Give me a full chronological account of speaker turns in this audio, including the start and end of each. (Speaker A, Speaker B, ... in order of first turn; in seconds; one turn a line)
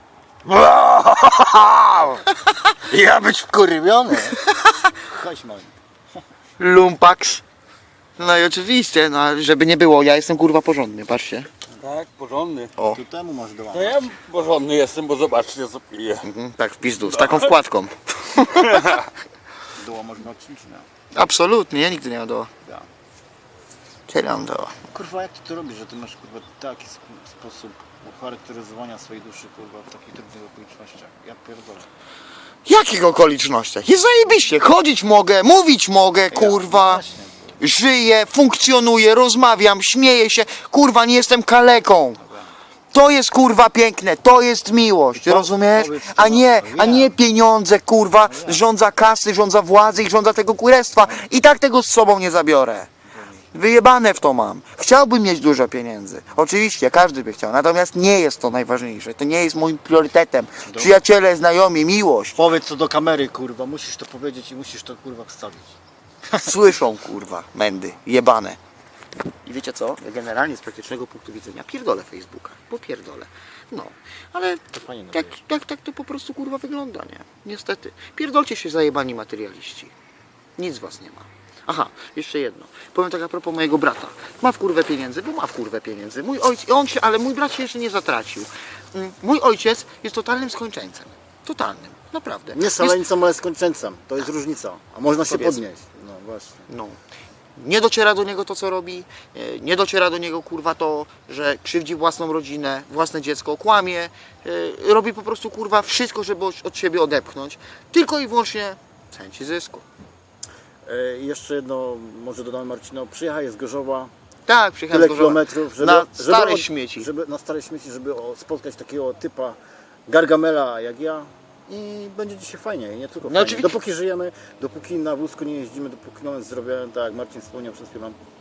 Speaker A: 0.6-2.2
Speaker A: 2.9-4.4
Speaker A: 5.0-5.7
Speaker B: 6.6-7.4
Speaker B: 8.2-11.5
Speaker C: 11.8-12.7
Speaker A: 12.9-14.1
Speaker C: 13.7-16.3
Speaker B: 16.2-19.0
Speaker C: 17.1-17.5
Speaker C: 18.7-19.0
Speaker A: 19.8-20.9
Speaker B: 21.1-22.5
Speaker B: 24.1-24.8
Speaker A: 24.9-31.9
Speaker B: 32.6-37.0
Speaker A: 36.3-37.6
Speaker B: 37.6-42.2
Speaker B: 42.9-52.9
Speaker A: 45.2-47.1
Speaker A: 48.2-48.6
Speaker A: 53.1-53.4
Speaker B: 53.5-62.4
Speaker A: 60.7-61.0
Speaker A: 62.4-65.8
Speaker B: 66.4-68.6
Speaker B: 69.5-79.9
Speaker A: 74.7-75.4
Speaker B: 80.6-93.0
Speaker A: 92.5-96.7
Speaker B: 95.2-95.6
Speaker B: 96.7-97.0
Speaker B: 97.6-109.8
Speaker A: 110.8-114.1
Speaker B: 114.5-117.1
Speaker A: 114.9-119.6
Speaker A: 120.1-128.2
Speaker B: 123.2-123.8